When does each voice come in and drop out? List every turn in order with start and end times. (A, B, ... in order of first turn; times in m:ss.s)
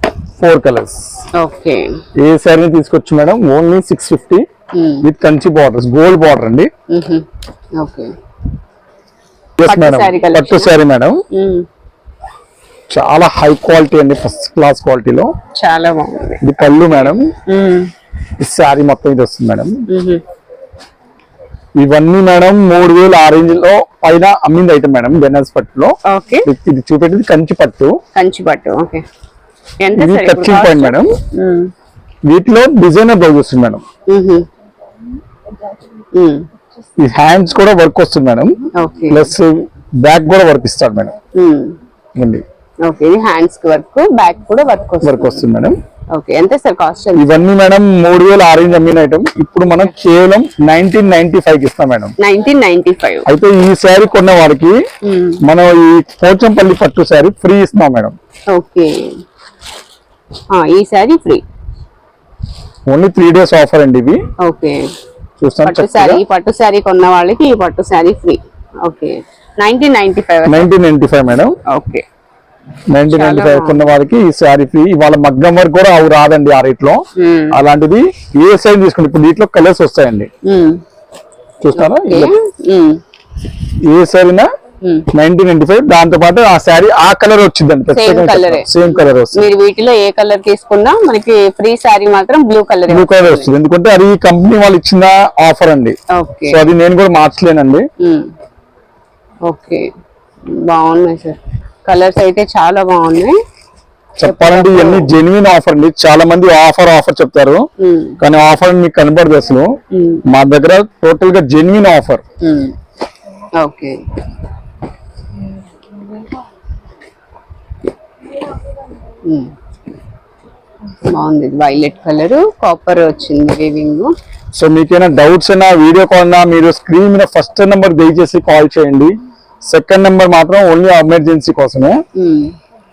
0:00.4-0:01.2 A
0:01.3-0:01.9 B
0:02.2-0:04.4 A
0:04.7-0:05.1 B
0:05.0-0:06.7 A
0:06.9-0:07.3 B
0:07.8-0:08.1 B
0:09.6-0:11.2 A
0:09.6-0:10.7 B
0:11.3-0:11.7 B
0:12.9-0:15.3 A
0:15.6-0:17.9 B
0:16.4-0:17.3 A
0:18.4-0:19.8 A
0:19.9-0:20.2 B
0:21.8-0:28.0 A
0:26.0-0:26.5 B
0:28.2-0:29.0 B
0:29.8-0:31.7 B
0:30.0-0:31.2 A
0:32.3-0:33.8 A
0:34.1-0:34.5 B
0:36.2-0:36.5 B
0:37.0-0:41.1 A
0:38.8-0:39.3 B
0:41.4-0:41.8 B
0:42.2-0:42.4 A
0:42.8-0:45.4 B
0:45.0-0:45.8 A
0:46.1-0:47.3 B
0:47.2-0:52.1 A
0:52.2-0:53.3 B
0:53.3-0:54.8 A
0:55.0-0:55.4 B
0:55.4-0:58.2 A
0:58.5-0:59.1 B
1:00.5-1:01.4 B
1:02.9-1:04.2 A
1:04.4-1:04.9 B
1:05.4-1:06.2 A
1:05.6-1:10.7 B
1:10.5-1:11.6 A
1:11.7-1:12.0 B
1:12.9-1:20.3 A
1:13.1-1:13.8 B
1:17.2-1:17.6 B
1:20.4-1:20.8 B
1:21.6-1:22.4 A
1:21.8-1:23.0 B
1:23.9-1:24.5 A
1:24.8-1:25.1 B
1:25.1-1:29.5 A
1:27.9-1:33.5 B
1:32.9-1:36.0 A
1:36.1-1:36.6 B
1:36.5-1:37.9 A
1:38.0-1:38.3 B
1:39.5-1:39.9 B
1:40.5-1:43.4 B
1:44.2-1:47.7 A
1:44.2-1:45.1 B
1:47.8-1:48.2 B
1:48.2-1:49.7 A
1:49.9-1:50.2 B
1:50.3-1:52.2 A
1:52.4-1:52.8 B
1:53.6-1:54.0 B
1:59.2-1:59.5 B
2:01.1-2:04.1 B
2:04.6-2:09.2 A
2:09.7-2:12.0 A
2:12.2-2:12.5 B